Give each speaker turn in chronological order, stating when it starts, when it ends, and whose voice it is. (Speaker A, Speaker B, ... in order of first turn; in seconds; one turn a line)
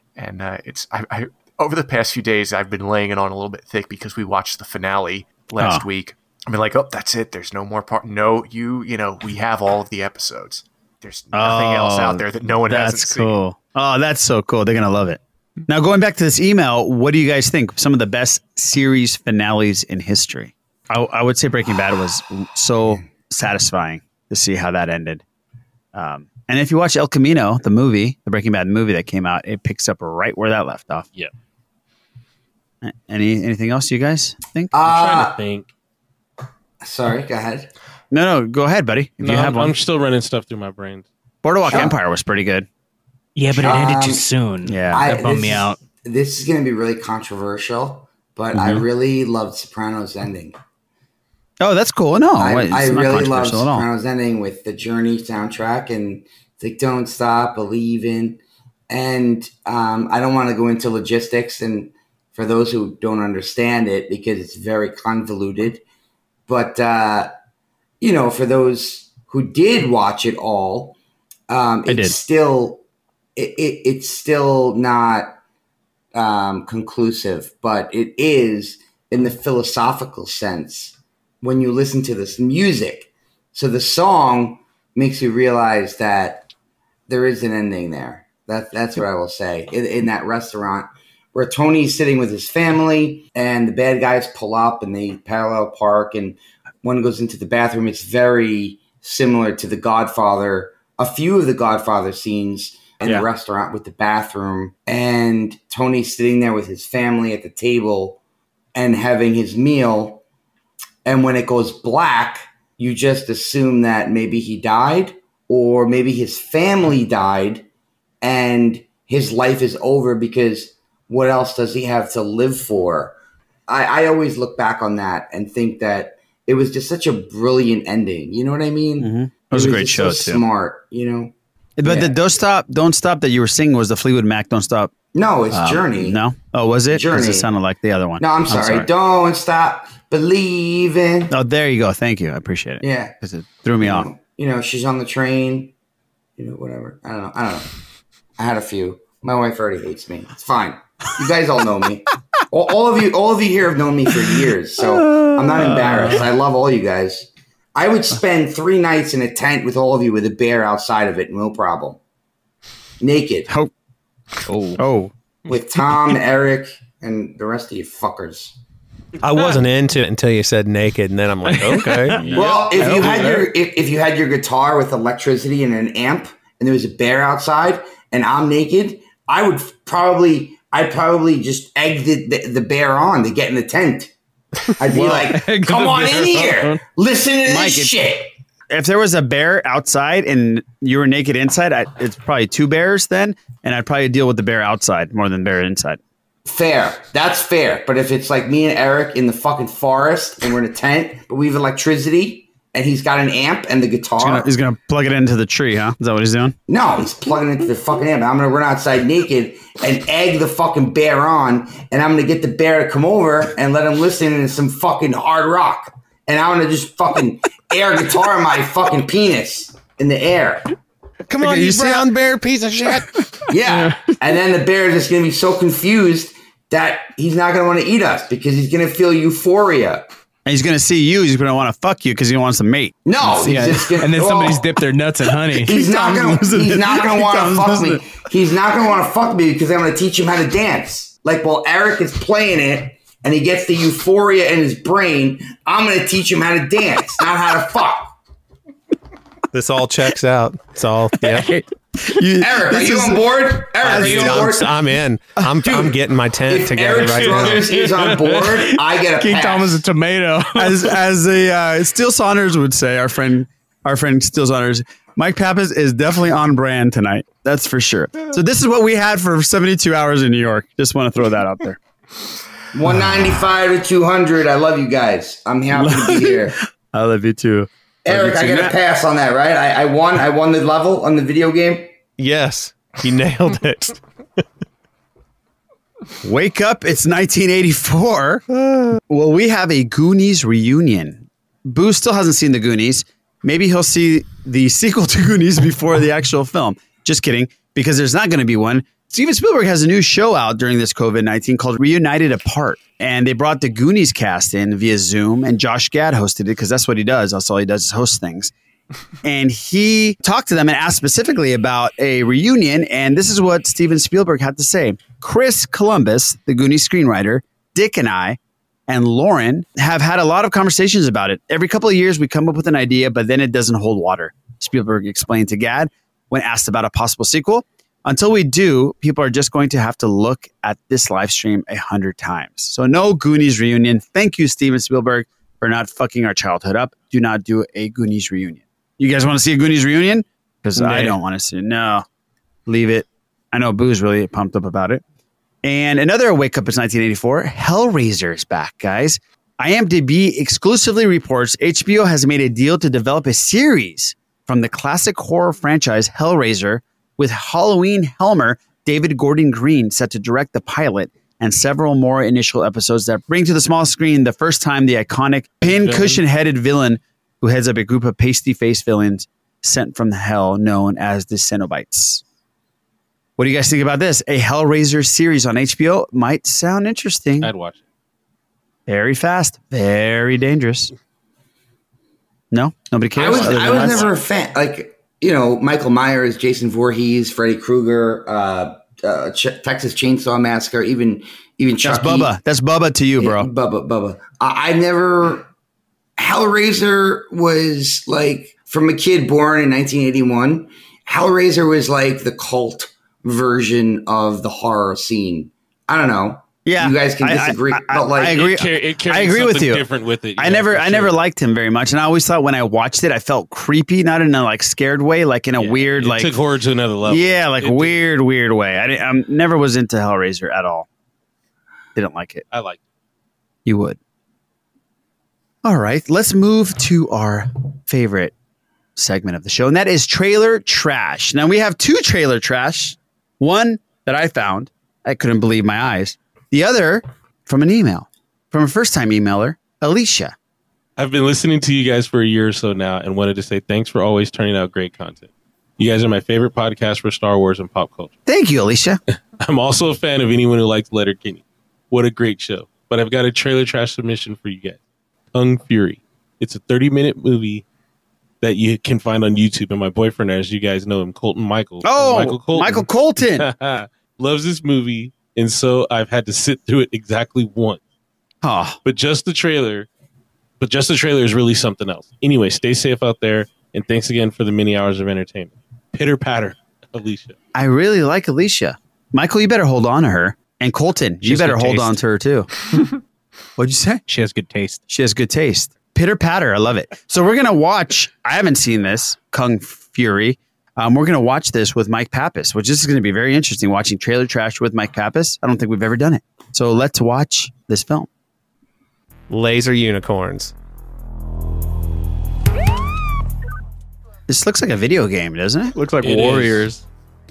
Speaker A: 0.2-13.4
Speaker B: 5.6-5.8
Speaker B: 11.3-25.2
Speaker B: 25.9-31.1
Speaker B: 32.8-34.7
Speaker C: 34.7-35.4
Speaker D: 34.8-35.7
Speaker C: 36.8-37.7
Speaker B: 38.1-39.8
Speaker D: 39.2-41.1
Speaker B: 41.4-42.7
Speaker C: 41.7-42.0
Speaker E: 43.4-45.8
Speaker C: 43.6-44.3
Speaker B: 44.7-45.2
Speaker C: 44.9-50.6
Speaker B: 48.5-48.8
Speaker B: 51.6-53.9
Speaker C: 52.4-65.8
Speaker C: 66.5-67.3
Speaker C: 68.0-71.0
Speaker C: 71.5-72.8
Speaker B: 71.9-72.2
Speaker C: 73.4-75.3
Speaker C: 76.1-86.5
Speaker C: 87.1-108.2
Speaker B: 103.0-103.3
Speaker C: 108.7-110.2
Speaker C: 111.1-117.7
Speaker C: 118.2-123.2
Speaker C: 123.7-131.3
Speaker B: 129.0-130.4
Speaker B: 131.8-134.9
Speaker C: 131.8-132.1
Speaker C: 135.1-136.2
Speaker B: 135.5-138.9
Speaker C: 136.9-137.5
Speaker C: 138.2-141.3
Speaker B: 141.3-144.1
Speaker C: 142.8-143.1
Speaker C: 143.8-145.7
Speaker C: 146.4-147.7
Speaker C: 148.4-162.0
Speaker B: 154.8-156.2
Speaker C: 163.0-163.5
Speaker E: 164.5-164.8
Speaker B: 164.8-165.1
Speaker C: 165.5-168.6
Speaker F: 169.2-172.2
Speaker E: 171.5-173.5
Speaker B: 172.3-173.1
Speaker C: 172.3-184.1
Speaker C: 184.8-188.3
Speaker E: 184.9-186.8
Speaker B: 184.9-185.3
Speaker B: 187.4-187.9
Speaker B: 188.7-196.0
Speaker C: 196.5-204.5
Speaker B: 204.2-206.6
Speaker C: 206.7-220.7
Speaker F: 221.3-223.2
Speaker C: 221.5-222.0
Speaker C: 223.5-230.1
Speaker E: 223.6-224.2
Speaker B: 230.4-233.0
Speaker C: 233.1-234.8
Speaker E: 233.2-238.0
Speaker C: 235.5-248.1
Speaker F: 249.5-251.5
Speaker B: 252.0-253.2
Speaker C: 252.4-254.8
Speaker F: 253.8-257.6
Speaker B: 253.8-254.4
Speaker C: 255.6-259.8
Speaker E: 257.3-261.0
Speaker B: 260.6-271.8
Speaker C: 272.7-276.6
Speaker B: 275.7-278.8
Speaker C: 278.1-281.9
Speaker F: 282.2-284.0
Speaker B: 286.2-288.4
Speaker F: 288.5-289.0
Speaker B: 289.1-308.5
Speaker B: 309.2-342.1
Speaker E: 340.8-341.2
Speaker B: 342.7-345.0
Speaker B: 345.6-372.2
Speaker D: 365.7-366.2
Speaker B: 373.4-377.5
Speaker D: 377.4-377.8
Speaker B: 378.9-380.9
Speaker B: 382.5-384.1
Speaker C: 383.1-392.3
Speaker E: 383.5-384.0
Speaker B: 391.8-393.5
Speaker C: 393.2-395.5
Speaker C: 396.2-408.5
Speaker B: 406.6-409.9
Speaker D: 408.3-411.2
Speaker B: 410.4-416.4
Speaker D: 415.6-418.0
Speaker B: 417.1-420.9
Speaker B: 421.9-422.4
Speaker D: 422.5-422.8
Speaker B: 423.6-424.0
Speaker B: 425.6-428.3
Speaker B: 429.0-440.4
Speaker D: 441.0-448.1
Speaker B: 448.3-449.0
Speaker D: 449.4-454.8
Speaker D: 455.3-457.6
Speaker D: 458.4-467.8
Speaker B: 461.8-463.5
Speaker B: 468.4-468.8
Speaker D: 468.9-469.9
Speaker D: 470.6-477.4
Speaker B: 477.6-482.5
Speaker F: 481.2-482.0
Speaker B: 483.6-484.0
Speaker E: 484.1-484.8
Speaker B: 484.9-498.1
Speaker F: 499.3-500.5
Speaker B: 504.3-505.8
Speaker E: 505.8-506.8
Speaker D: 506.0-506.6